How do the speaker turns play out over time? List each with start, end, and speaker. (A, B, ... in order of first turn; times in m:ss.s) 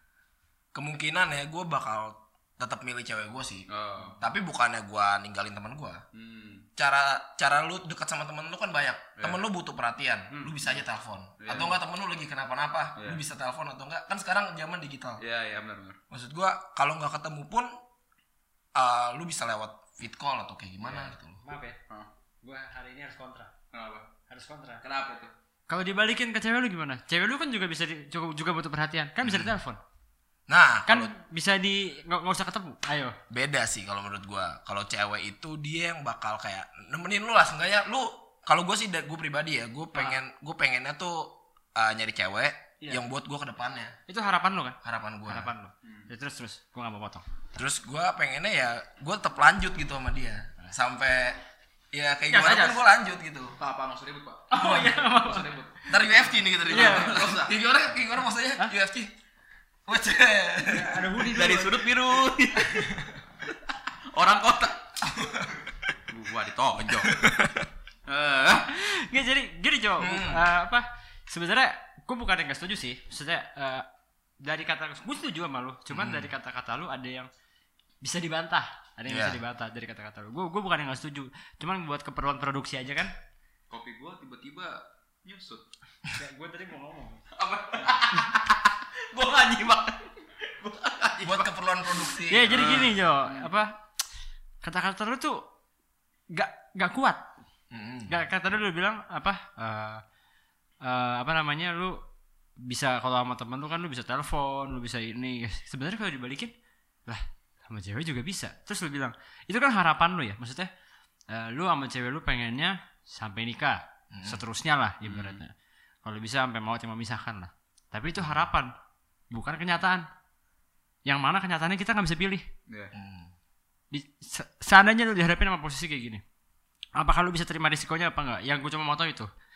0:00.7-0:06.0 A
0:03.7-0:04.2 B
0:06.1-0:06.7 B
0:06.8-0:15.2 A
0:11.4-0:11.8 B
0:13.0-0:13.2 B
0:15.2-0:16.0 B
0:16.1-0:17.7 A
0:18.7-0:21.4 A
0:20.8-0:21.1 B
0:21.4-0:21.8 C
0:22.4-0:23.5 C
0:23.7-0:24.1 B
0:24.3-0:24.8 C
0:24.8-0:25.3 B
0:25.7-0:29.8 C
0:29.2-0:29.5 A
0:30.5-0:31.1 A
0:30.9-0:33.2 C
0:33.3-0:44.0 A
0:44.1-0:47.3 C
0:44.8-0:45.5 A
0:47.5-0:51.4 A
0:51.9-0:53.6 A
0:52.3-0:52.8 C
0:53.6-0:57.5 B
0:54.5-0:55.5 C
0:55.9-0:59.1 A
0:56.7-0:57.3 C
0:59.9-1:01.2 A
1:00.7-1:01.8 C
1:01.3-1:02.9 B
1:02.7-1:03.2 A
1:03.6-1:04.8 B
1:05.0-1:05.6 A
1:06.1-1:07.2 B
1:07.0-1:07.7 A
1:08.1-1:08.7 B
1:08.7-1:13.8 C
1:10.0-1:10.4 A
1:14.4-1:17.3 C
1:15.9-1:16.3 A
1:18.0-1:23.1 C
1:19.1-1:19.4 A
1:23.7-1:25.6 B
1:26.1-1:27.2 C
1:27.3-1:33.5 B
1:31.2-1:32.9 A
1:32.3-1:33.8 C
1:34.6-1:35.4 C
1:36.3-1:37.2 C
1:37.7-1:38.1 A
1:38.1-1:40.0 C
1:40.8-1:42.0 C
1:42.6-1:46.5 C
1:47.1-1:50.7 C
1:51.3-1:55.5 C
1:54.1-1:54.4 A
1:55.0-1:55.4 B
1:56.0-1:58.7 C
1:59.3-2:00.0 C
2:01.0-2:02.4 C
2:02.9-2:03.3 A
2:03.9-2:06.2 C
2:07.0-2:09.3 C